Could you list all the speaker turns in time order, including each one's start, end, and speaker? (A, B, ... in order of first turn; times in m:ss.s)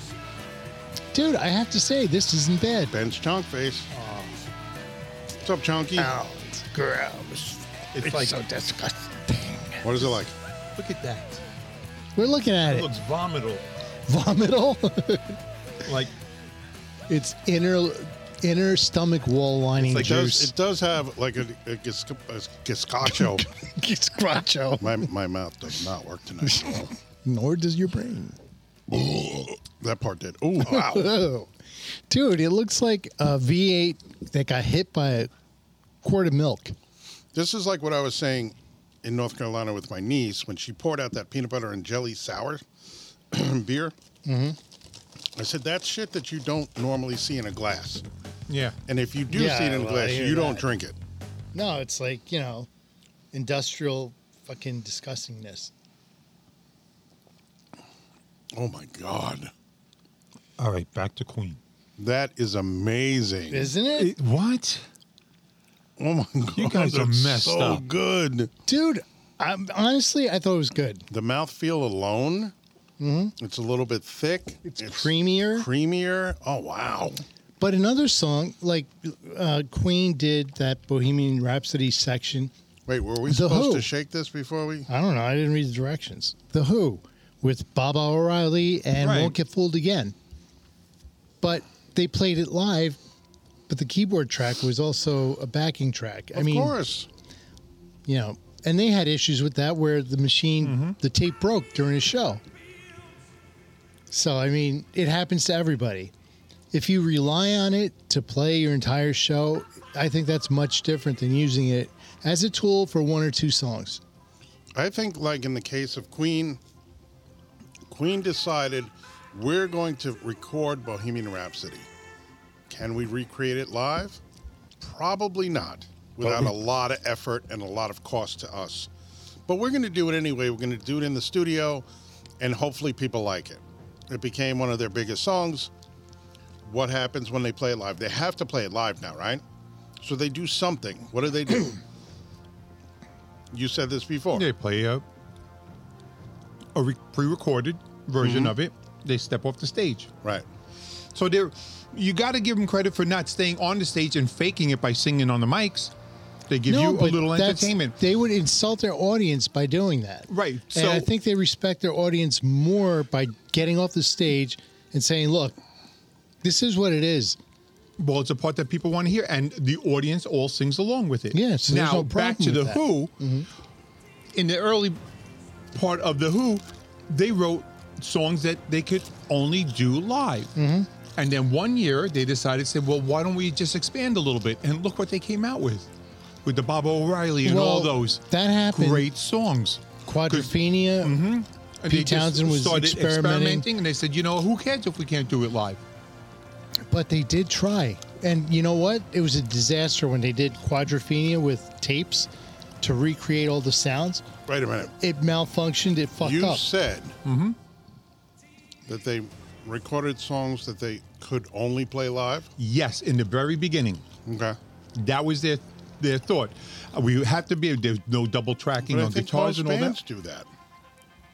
0:01.1-0:02.9 A
0:02.9-0:03.9 B
0:04.0-0:04.3 A
0:05.4-0:06.1 B
0:06.0-0:10.2 A
0:07.9-0:08.4 C
0:09.8-0:10.3 B
0:10.8-0:11.4 C
0:12.2-0:12.9 A
0:12.7-0:13.7 C
0:14.1-0:15.4 A
0:15.8-0:16.1 C
0:17.1-0:20.5 A
0:19.8-0:20.5 C
0:20.0-0:23.5 B
0:23.0-0:25.1 A
0:24.8-0:26.9 B
0:26.4-0:28.4 A
0:28.9-0:31.2 B
0:30.6-0:31.5 A
0:32.1-0:35.3 A
0:36.0-0:36.8 A
0:37.3-0:42.6 B
0:43.3-0:44.0 B
0:44.2-0:44.6 A
0:45.4-0:48.0 B
0:48.5-0:48.8 C
0:48.9-0:51.0 B
0:49.3-0:50.7 A
0:51.5-0:52.7 A
0:53.3-0:55.7 A
0:58.5-0:59.5 B
1:00.6-1:01.6 C
1:02.0-1:03.7 B
1:03.5-1:04.1 A
1:03.9-1:04.8 C
1:06.0-1:08.5 B
1:06.6-1:07.8 C
1:08.7-1:11.1 A
1:11.1-1:12.5 B
1:13.0-1:13.3 A
1:13.4-1:17.2 B
1:14.6-1:15.7 A
1:17.6-1:22.5 A
1:22.9-1:24.9 B
1:23.3-1:23.9 A
1:24.9-1:30.2 A
1:29.0-1:29.4 C
1:31.4-1:33.0 A
1:33.7-1:36.7 A
1:36.3-1:37.1 B
1:38.1-1:42.4 A
1:40.6-1:41.0 C
1:44.1-1:46.1 A
1:46.7-1:54.0 A
1:54.8-1:56.6 B
1:57.9-2:01.9 B
2:02.7-2:04.2 B
2:04.8-2:08.9 B
2:06.2-2:06.5 C
2:09.5-2:11.9 B
2:12.4-2:15.7 B
2:16.6-2:19.4 B
2:20.0-2:21.8 B
2:23.5-2:24.4 B
2:24.4-2:25.0 C
2:26.8-2:30.1 C
2:28.2-2:28.5 B
2:31.2-2:35.9 C
2:36.5-2:38.0 C
2:36.7-2:45.6 A
2:40.3-2:41.1 C
2:46.4-2:47.4 A
2:48.0-2:53.1 C
2:51.3-2:53.5 A
2:54.3-2:55.0 C
2:55.7-3:00.5 C
3:00.6-3:00.9 A
3:01.2-3:05.9 C
3:06.4-3:15.8 C
3:07.4-3:09.1 A
3:10.1-3:11.2 A
3:11.9-3:13.7 A
3:16.9-3:22.3 A
3:22.8-3:24.2 A
3:24.5-3:24.9 B
3:25.0-3:26.6 A
3:26.2-3:27.2 B
3:27.2-3:27.6 C
3:28.9-3:32.5 B
3:32.6-3:34.0 C
3:34.3-3:34.6 B
3:35.0-3:40.0 C
3:38.8-3:40.5 B